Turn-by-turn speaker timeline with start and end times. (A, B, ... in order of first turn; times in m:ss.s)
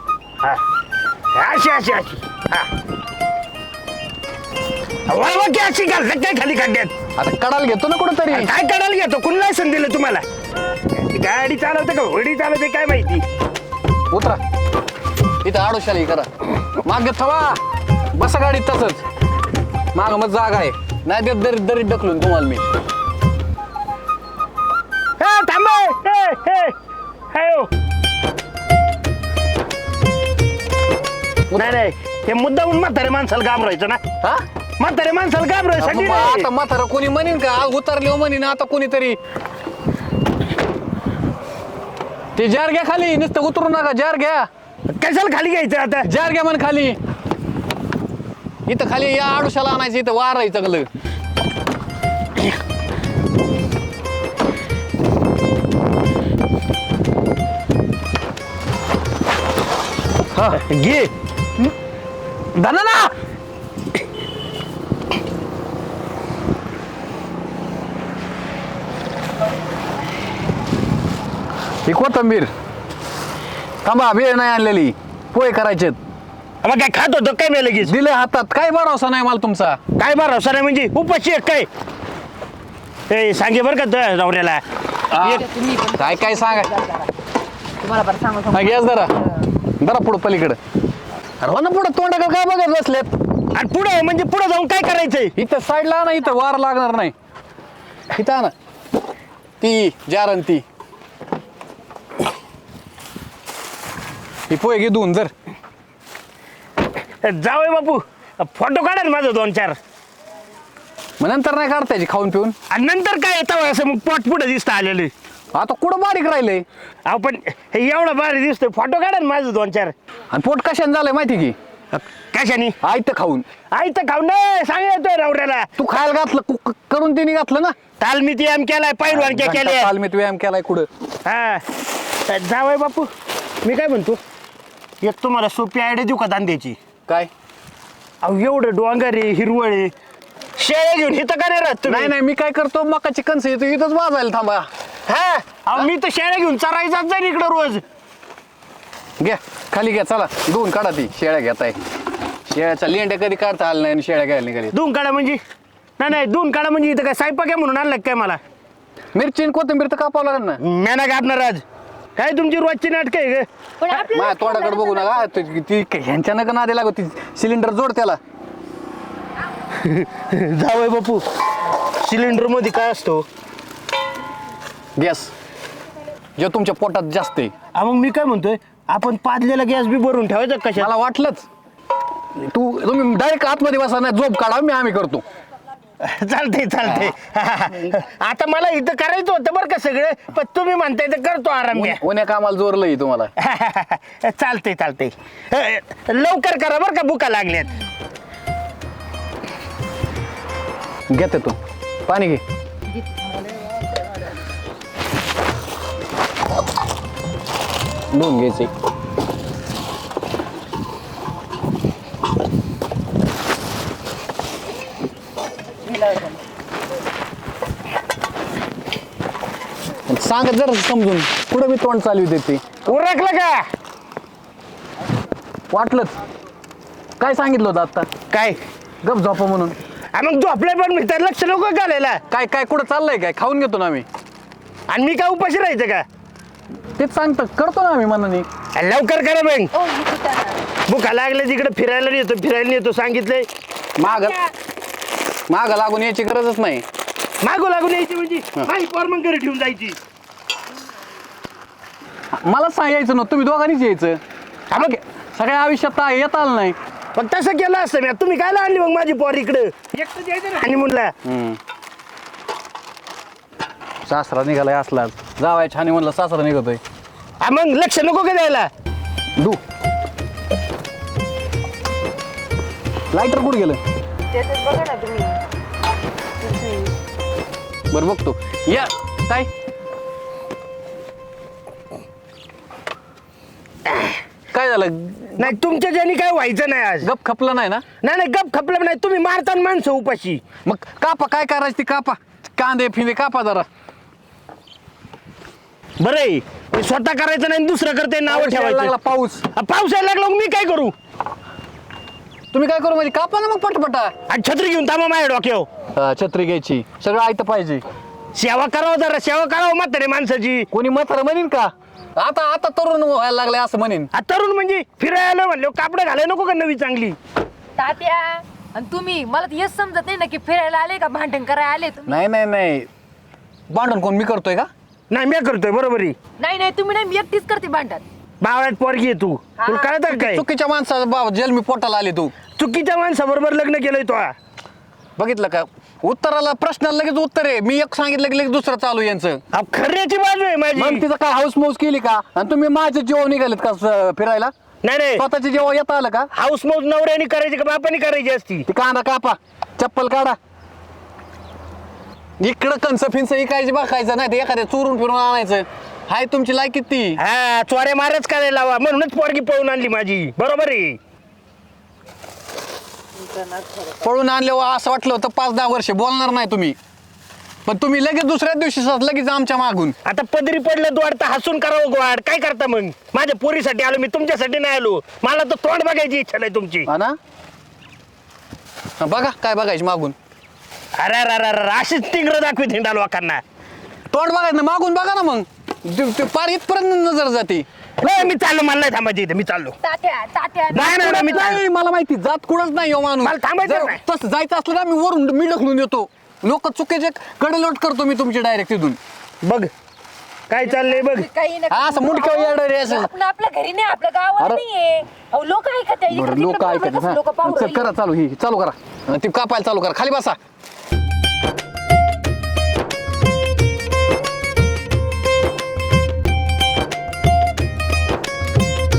0:01.3-0:02.7 A
0:05.1-0:06.9 A
0:07.2-0:08.5 B
0:08.3-0:10.2 A
0:11.1-0:13.2 A
0:14.1-0:14.4 B
0:15.4-0:17.6 B
0:18.1-0:19.0 B
0:19.9-0:22.6 B
0:25.2-0:26.7 A
0:27.3-0:27.7 A
0:31.5-0:34.0 A
0:34.8-0:36.5 A
0:35.8-0:39.2 B
0:42.4-0:44.5 B
0:44.9-0:46.1 A
0:46.0-0:47.0 B
0:48.7-0:50.9 B
1:00.3-1:00.6 B
1:00.6-1:01.1 A
1:02.6-1:03.1 B
1:11.8-1:12.5 B
1:13.8-1:16.0 B
1:16.6-1:17.9 A
1:17.8-1:19.8 B
1:20.0-1:21.7 A
1:23.1-1:24.6 A
1:25.1-1:26.7 B
1:25.2-1:27.1 C
1:27.8-1:29.3 C
1:28.5-1:29.1 B
1:29.8-1:30.6 B
1:31.4-1:33.1 B
1:33.5-1:35.3 A
1:35.4-1:37.1 B
1:38.1-1:38.5 B
1:39.6-1:40.6 B
1:44.5-1:45.3 B
1:47.2-1:49.8 A
1:51.2-1:52.5 B
1:52.7-1:55.1 A
1:55.5-1:56.6 B
1:57.0-1:59.9 A
2:00.3-2:01.6 B
2:01.9-2:02.8 A
2:02.8-2:03.4 B
2:03.7-2:05.7 A
2:05.8-2:07.8 B
2:08.0-2:09.9 A
2:09.1-2:10.9 B
2:11.2-2:11.6 A
2:12.3-2:13.1 A
2:13.6-2:14.2 A
2:15.0-2:16.8 A
2:18.2-2:19.9 A
2:20.6-2:22.1 A
2:21.8-2:24.7 B
2:25.1-2:27.8 A
2:29.2-2:31.8 B
2:32.5-2:34.7 B
2:34.7-2:35.4 A
2:36.0-2:38.4 A
2:39.1-2:40.6 B
2:40.6-2:41.6 A
2:42.2-2:44.0 A
2:43.8-2:45.3 C
2:44.1-2:48.2 B
2:49.8-2:51.2 A
2:52.0-2:53.2 A
2:55.0-2:55.3 B
2:56.4-2:57.5 B
2:57.8-3:00.9 A
3:00.7-3:01.5 B
3:02.4-3:05.2 B
3:06.0-3:12.0 A
3:06.9-3:07.1 B
3:11.7-3:13.3 B
3:13.4-3:17.8 A
3:21.1-3:22.4 B
3:23.0-3:23.8 C
3:28.1-3:28.7 B
3:40.1-3:42.7 B
3:42.8-3:43.7 A
3:45.7-3:46.1 B
3:47.2-3:48.1 B
3:48.3-3:48.6 A
3:49.0-3:49.8 B
3:50.1-3:52.2 A
3:52.3-3:54.0 B
3:54.9-3:56.0 A
3:57.0-3:58.5 B
3:58.8-3:59.7 A
3:59.7-4:00.6 C
4:00.9-4:03.5 A
4:04.0-4:04.4 B
4:04.0-4:04.4 C
4:05.5-4:06.8 B
4:07.4-4:10.0 A
4:12.3-4:14.2 B
4:14.7-4:15.0 A
4:14.7-4:16.8 B
4:17.1-4:21.1 A
4:21.2-4:21.6 B
4:24.0-4:26.8 B
4:27.4-4:28.7 A
4:33.1-4:33.8 B
4:34.3-4:35.4 C
4:36.4-4:36.9 C
4:37.9-4:39.5 B
4:44.5-4:45.5 B
4:45.4-4:47.1 A
4:47.0-4:47.8 B
4:48.0-4:50.4 A
4:50.6-4:53.7 B
4:56.0-4:58.9 A
4:58.3-4:59.5 B
4:59.5-5:00.9 A
5:02.5-5:04.1 B
5:04.3-5:05.7 A
5:05.9-5:07.8 B
5:08.3-5:10.7 A
5:10.7-5:14.1 B
5:14.1-5:17.2 A
5:17.8-5:22.2 C
5:22.1-5:22.9 B
5:23.7-5:24.7 B
5:25.1-5:26.2 A
5:26.4-5:28.0 C
5:28.4-5:30.4 A
5:29.6-5:29.9 C
5:30.1-5:32.3 B
5:32.5-5:34.3 A
5:35.2-5:39.4 B
5:39.5-5:41.0 A
5:40.7-5:44.5 B
5:44.8-5:45.2 A
5:45.2-5:46.3 B
5:46.3-5:48.7 A
5:48.7-5:50.4 B
5:52.4-5:57.2 B
5:57.2-6:01.0 A
6:03.2-6:04.0 C
6:04.0-6:06.8 B
6:07.6-6:10.0 B
6:10.0-6:16.9 A
6:16.9-6:17.2 B
6:19.0-6:20.1 B
6:21.0-6:23.4 A
6:24.1-6:27.6 B
6:28.0-6:29.8 A
6:29.8-6:31.5 C
6:30.7-6:31.6 A
6:31.0-6:39.0 B
6:33.2-6:34.0 A
6:39.4-6:39.7 A
6:40.5-6:41.3 A
6:40.6-6:47.9 C
6:41.7-6:43.1 B
6:46.1-6:50.4 B